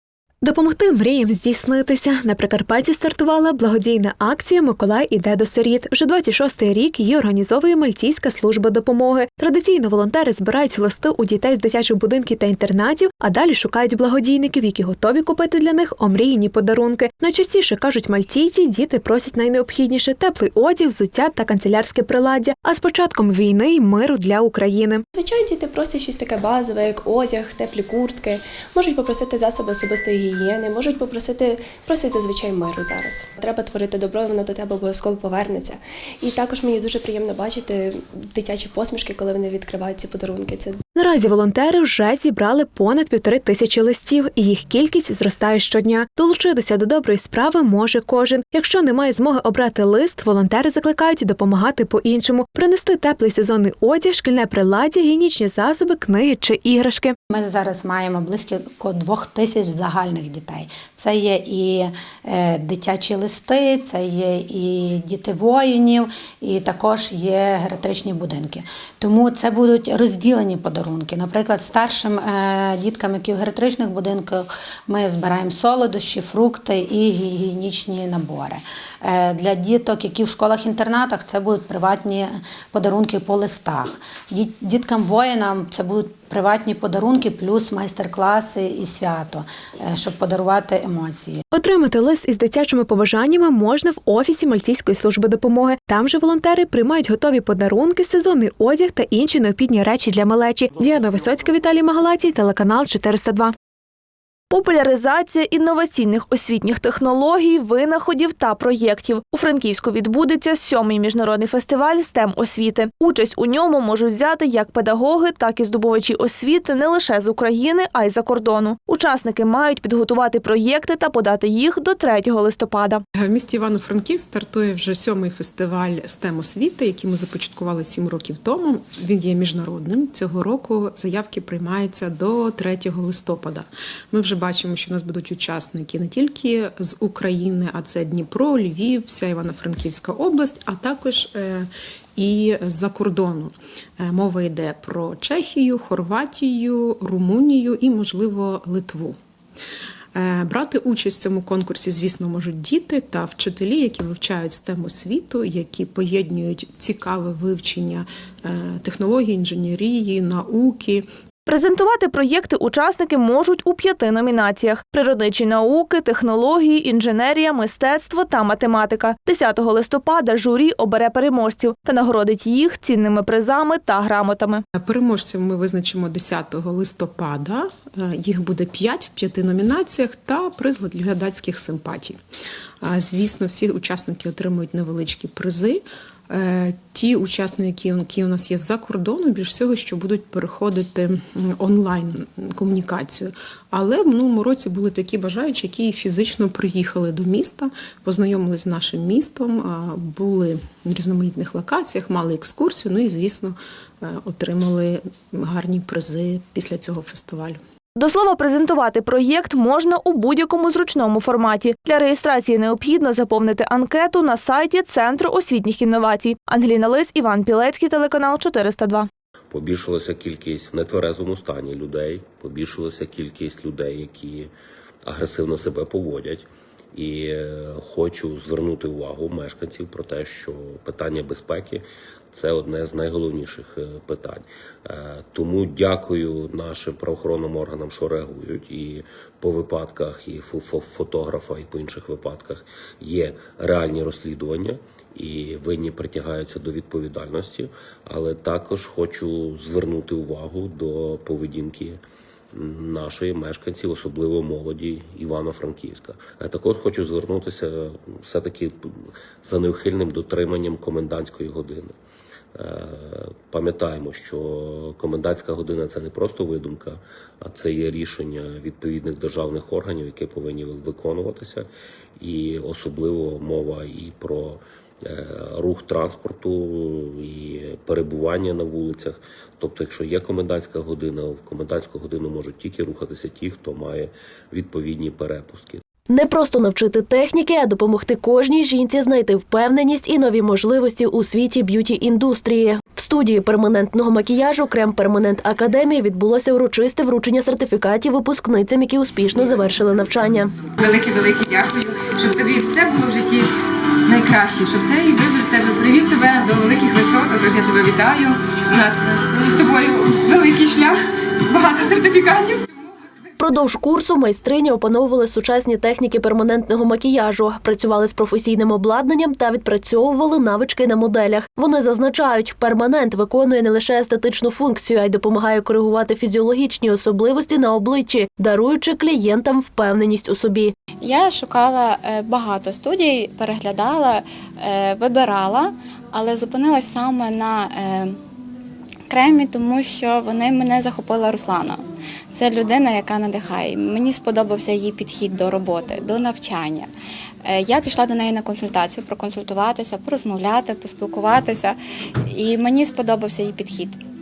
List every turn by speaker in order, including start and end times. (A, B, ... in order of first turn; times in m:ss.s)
0:00.4-0:25.0 A
0:25.1-0:40.8 B
0:41.0-0:57.1 A
0:57.3-1:31.4 C
1:31.5-1:43.5 A
1:44.5-2:03.0 D
2:03.2-2:29.2 E
2:30.2-2:41.1 E
2:41.4-2:54.6 D
2:54.8-3:02.2 E
3:02.8-3:27.6 E
3:28.0-3:39.1 D
3:39.5-3:44.5 F
3:45.0-4:12.0 F
4:12.5-4:18.7 F
4:19.4-4:21.9 F
4:22.5-4:31.7 F
4:32.2-4:45.8 F
4:46.1-5:00.6 G
5:00.8-5:03.5 H
5:04.1-5:11.0 H
5:11.5-5:12.6 H
5:13.4-5:30.7 G
5:31.0-5:38.2 I
5:39.1-5:46.9 I
5:47.4-5:54.0 I